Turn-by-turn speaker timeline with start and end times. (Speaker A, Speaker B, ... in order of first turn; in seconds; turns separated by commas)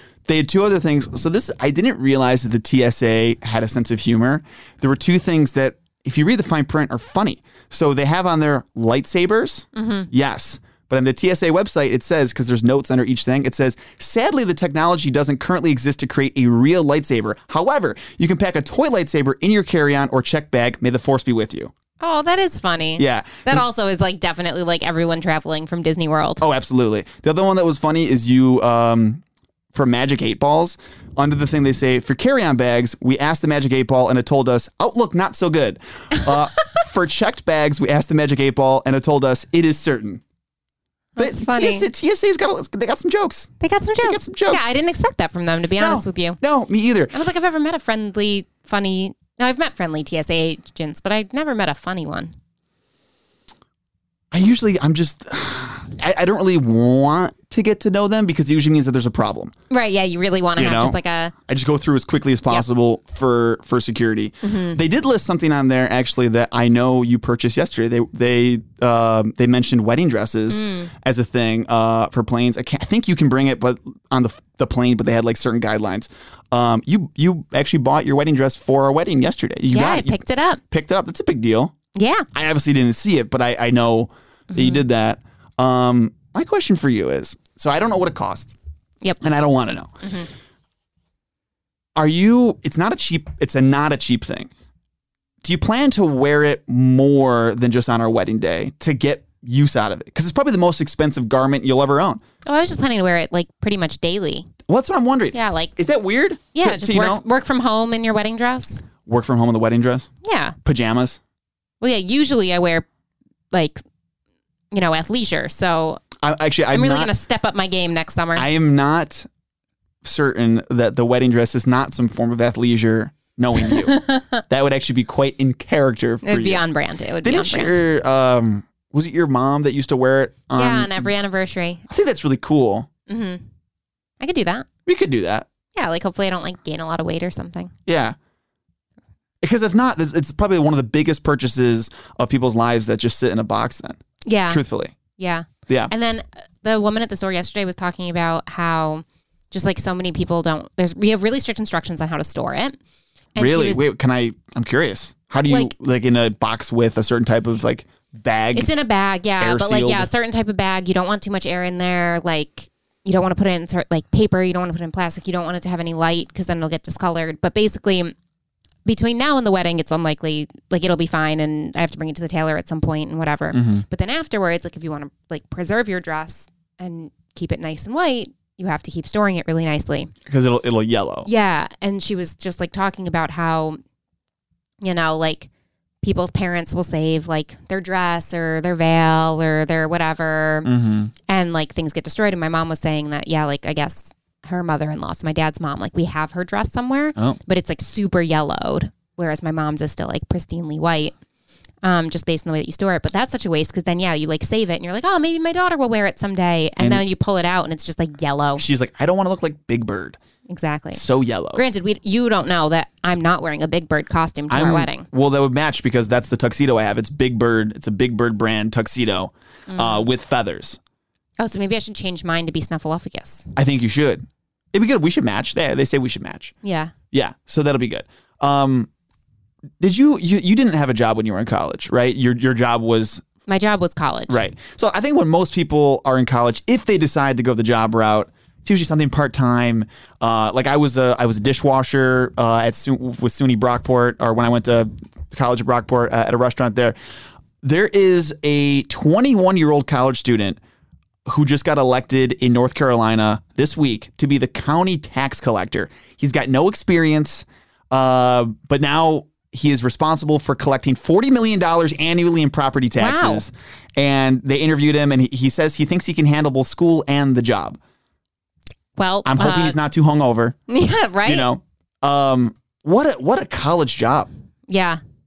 Speaker A: 0.2-21.7, Speaker B: 9.8-10.1, Speaker B: 22.0-26.4, Speaker A: 23.0-23.6, Speaker A: 26.4-29.2, Speaker A: 29.7-40.2, Speaker B: 41.1-41.9, Speaker A: 41.2-43.5, Speaker B: 43.6-46.4, Speaker A: 44.0-44.6, Speaker A: 45.8-47.1, Speaker B: 47.1-52.3, Speaker A: 54.3-59.5, Speaker B: 59.7-61.4, Speaker A: 60.6-81.7, Speaker B: 64.4-64.8, Speaker B: 70.5-70.9, Speaker B: 79.7-80.6, Speaker B: 81.9-82.2, Speaker A: 82.3-88.5, Speaker B: 84.5-84.8, Speaker A: 89.2-90.0, Speaker B: 90.0-90.3, Speaker A: 92.0-94.5, Speaker A: 95.4-102.2, Speaker B: 102.4-104.5, Speaker A: 104.7-107.2, Speaker B: 105.3-105.8, Speaker B: 106.5-108.8, Speaker A: 109.0-110.1, Speaker B: 110.2-110.5, Speaker A: 110.6-111.2, Speaker B: 111.8-112.8, Speaker B: 113.5-113.8, Speaker B: 114.7-116.0, Speaker A: 116.2-117.1, Speaker B: 116.7-118.5, Speaker A: 118.3-119.3, Speaker A: 120.0-126.6, Speaker B: 123.6-124.4, Speaker B: 126.2-127.8, Speaker A: 127.2-131.1, Speaker B: 130.5-131.8, Speaker A: 131.9-132.9, Speaker B: 133.1-133.4, Speaker B: 134.2-134.7, Speaker A: 134.9-135.5, Speaker B: 135.7-137.7, Speaker A: 137.9-138.2, Speaker A: 139.4-144.9, Speaker B: 144.2-144.6, Speaker B: 145.2-152.8, Speaker B: 153.3-153.8, Speaker A: 153.4-158.7, Speaker B: 158.5-168.1, Speaker A: 159.4-160.1, Speaker B: 168.8-180.1, Speaker A: 173.5-173.8, Speaker A: 180.2-181.3, Speaker B: 181.2-183.8, Speaker B: 184.8-185.5, Speaker B: 186.0-190.7, Speaker A: 190.6-191.1, Speaker B: 191.3-201.1, Speaker B: 201.8-208.6, Speaker A: 206.8-207.0, Speaker A: 208.6-210.2, Speaker B: 210.5-211.0, Speaker A: 210.9-211.6, Speaker B: 211.5-215.1, Speaker A: 214.5-220.8, Speaker B: 219.7-220.1, Speaker B: 221.4-223.5, Speaker A: 223.6-226.5, Speaker B: 226.6-226.9, Speaker A: 227.1-228.9, Speaker A: 229.8-233.2, Speaker B: 233.5-234.4, Speaker A: 234.3-246.9, Speaker A: 247.6-250.6, Speaker A: 251.2-267.8, Speaker B: 263.0-263.4, Speaker B: 269.0-269.8, Speaker A: 269.2-270.6, Speaker B: 270.7-271.5, Speaker A: 271.2-274.3, Speaker B: 274.7-275.0